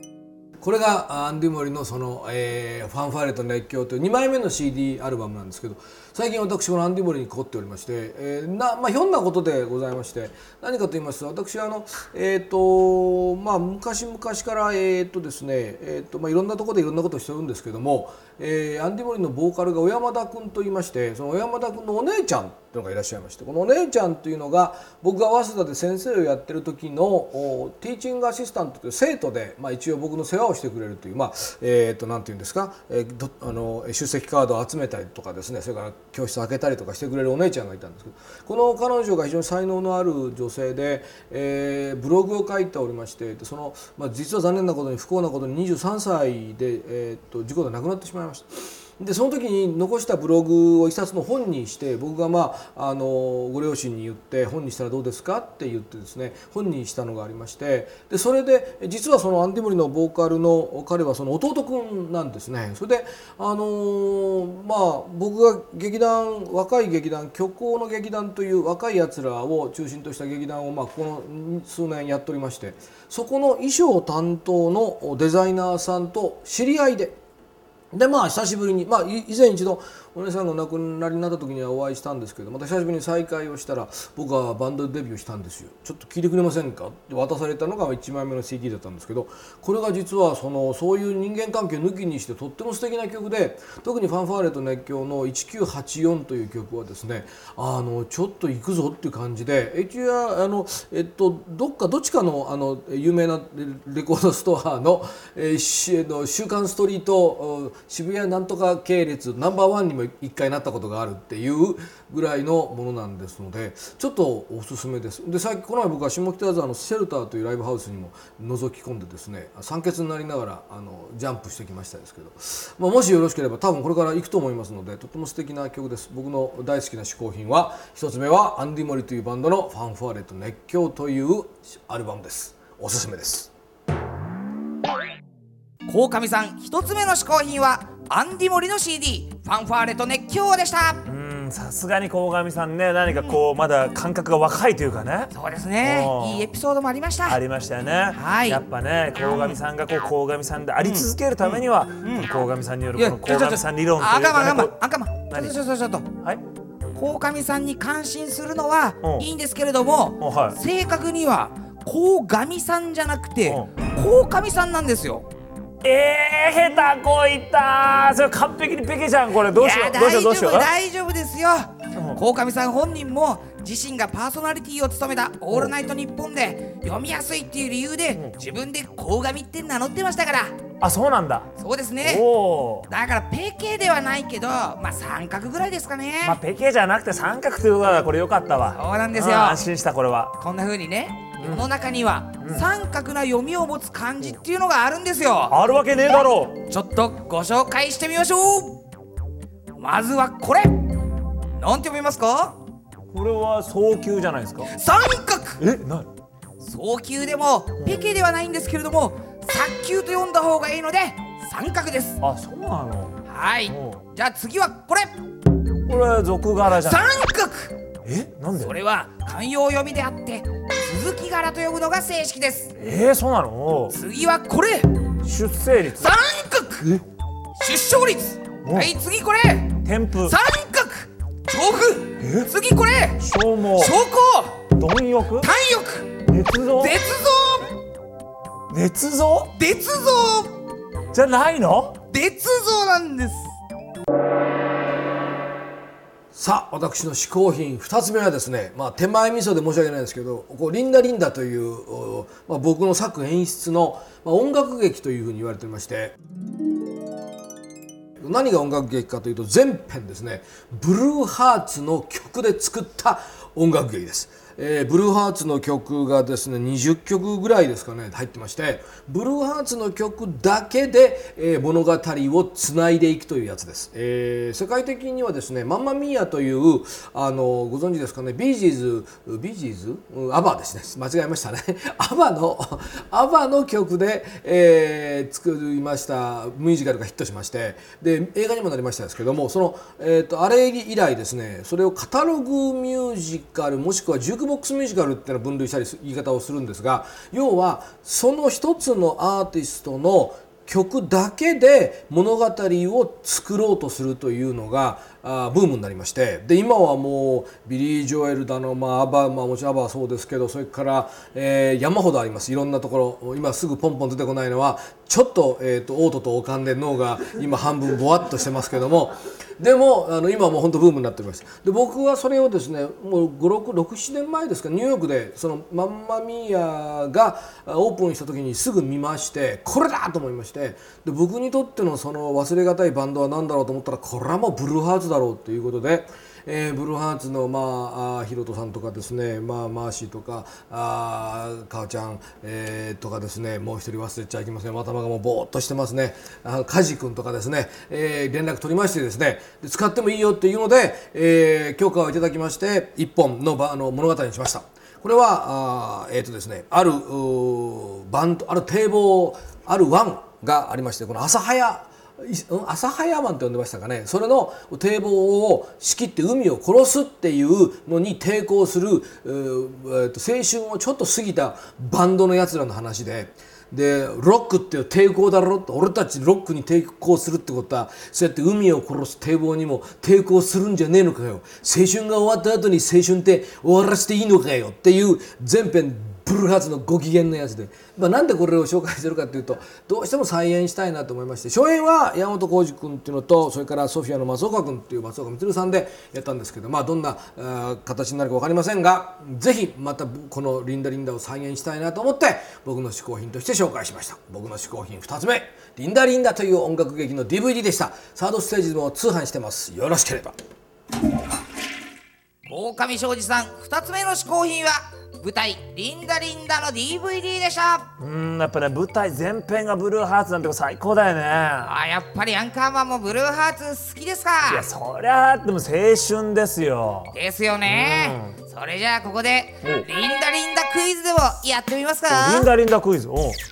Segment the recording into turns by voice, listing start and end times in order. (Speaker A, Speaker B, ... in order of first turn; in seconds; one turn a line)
Speaker A: 0.6-77.2
Speaker A: 77.9-133.5
Speaker B: 135.9-141.0
Speaker C: 141.1-146.5
Speaker B: 145.3-147.4
Speaker C: 147.3-155.6
Speaker B: 148.2-148.6
Speaker B: 149.2-149.6
Speaker B: 150.8-152.3
Speaker B: 152.9-156.2
Speaker B: 156.9-165.3
Speaker C: 160.2-160.6
Speaker C: 163.5-163.7
Speaker C: 165.8-170.7
Speaker B: 169.5-180.6
Speaker C: 180.8-181.5
Speaker B: 181.6-182.3
Speaker C: 182.0-182.9
Speaker B: 182.9-186.4
Speaker C: 186.2-190.3
Speaker B: 188.8-189.6
Speaker B: 190.4-195.6
Speaker C: 191.4-191.7
Speaker C: 195.5-196.6
Speaker B: 196.7-198.8
Speaker B: 199.8-200.9
Speaker B: 201.6-202.6
Speaker C: 203.1-204.7
Speaker B: 204.7-205.6
Speaker C: 205.6-206.1
Speaker B: 206.6-212.2
Speaker C: 212.2-213.1
Speaker B: 213.3-215.2
Speaker C: 213.7-214.0
Speaker C: 215.9-217.1
Speaker B: 216.7-217.8
Speaker C: 218.1-218.7
Speaker B: 218.6-222.7
Speaker C: 222.8-224.0
Speaker B: 223.9-224.9
Speaker C: 225.2-226.1
Speaker B: 226.0-227.0
Speaker B: 227.6-233.2
Speaker C: 228.6-228.9
Speaker C: 229.8-230.4
Speaker C: 232.2-232.5
Speaker C: 233.2-233.9
Speaker B: 233.8-234.7
Speaker C: 234.7-235.5
Speaker B: 235.4-236.2
Speaker C: 236.2-237.0
Speaker B: 236.8-237.7
Speaker C: 238.7-239.5
Speaker B: 239.6-240.6
Speaker C: 241.1-242.0
Speaker B: 242.1-243.5
Speaker A: 246.3-256.1
Speaker A: 258.2-410.4
Speaker B: 412.5-417.9
Speaker C: 418.0-421.7
Speaker B: 421.6-424.7
Speaker C: 424.5-427.1
Speaker B: 427.1-432.5
Speaker C: 427.6-428.4
Speaker C: 432.1-433.4